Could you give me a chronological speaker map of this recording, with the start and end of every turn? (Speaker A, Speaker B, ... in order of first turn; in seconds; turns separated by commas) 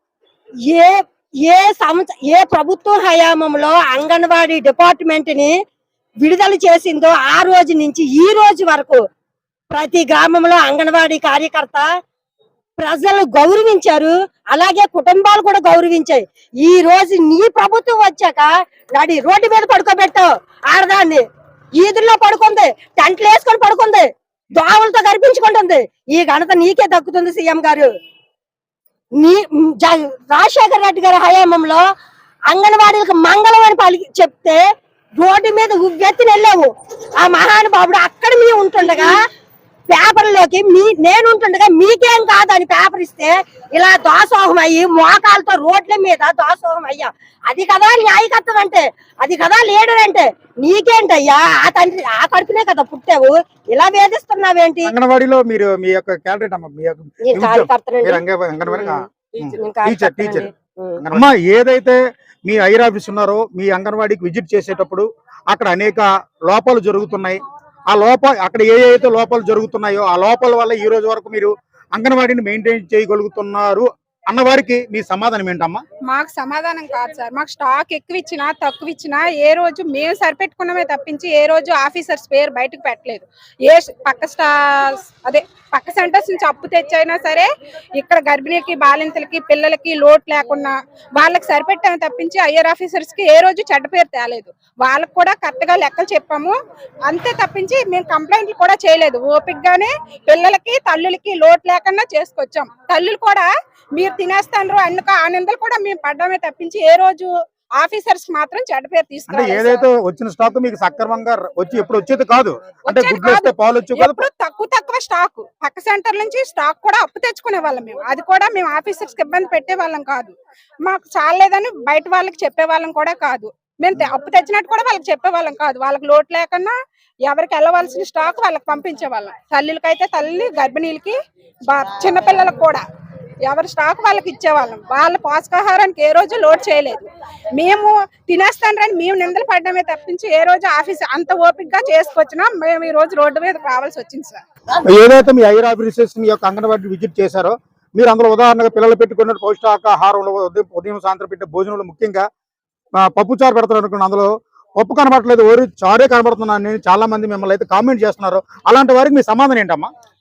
Speaker A: 0.7-5.5, Speaker A: 6.2-9.0, Speaker A: 9.7-11.8, Speaker A: 12.8-21.2, Speaker A: 21.8-24.1, Speaker A: 24.6-27.9, Speaker A: 29.2-31.8, Speaker A: 32.5-34.6, Speaker A: 35.2-39.1, Speaker A: 39.9-54.9, Speaker B: 54.9-60.5, Speaker A: 57.3-61.0, Speaker B: 61.0-67.4, Speaker B: 67.9-75.8, Speaker C: 76.1-96.5, Speaker C: 97.1-109.9, Speaker B: 109.3-114.3, Speaker C: 112.9-120.3, Speaker C: 120.8-126.7, Speaker C: 127.3-131.2, Speaker C: 131.7-132.8, Speaker C: 133.5-144.4, Speaker B: 144.8-152.2, Speaker B: 153.0-159.9